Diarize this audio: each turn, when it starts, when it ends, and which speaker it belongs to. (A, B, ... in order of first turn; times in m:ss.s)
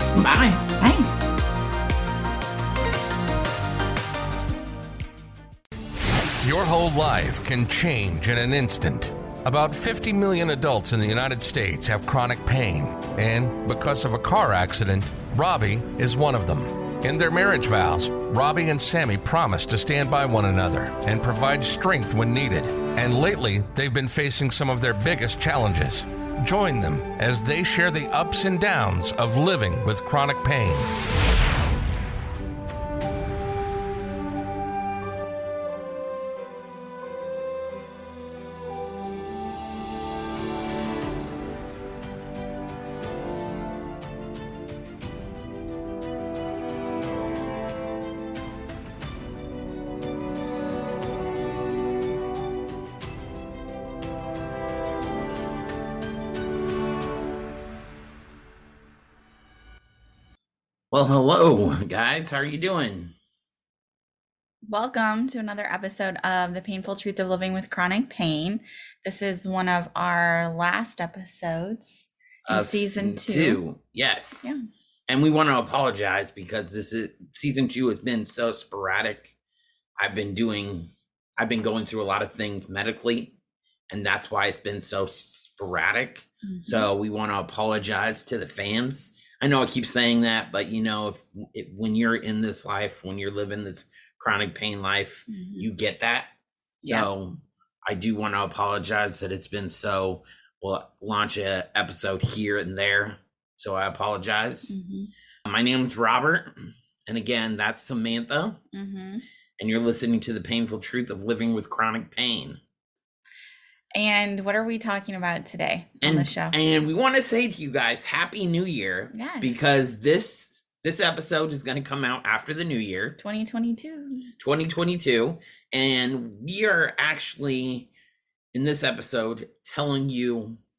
0:00.1-0:00.6 A
0:00.8-0:01.1 B
0:06.4-0:30.9 C
1:00.9-1:03.2 A
1:04.7-1:13.6 B
1:12.4-1:14.5 A
1:15.1-1:19.3 A
1:20.0-1:23.3 A
1:23.9-1:36.3 A
1:26.4-1:26.9 B
1:35.3-1:35.7 B
1:36.8-1:44.8 A
1:44.7-1:45.1 B
1:45.4-1:48.6 A
1:48.7-1:49.2 B
1:49.6-1:52.6 A
1:53.9-1:56.6 B
1:56.0-2:03.2 A
1:59.1-1:59.6 B
2:03.2-2:04.3 B
2:04.4-2:07.9 A
2:08.5-2:10.6 A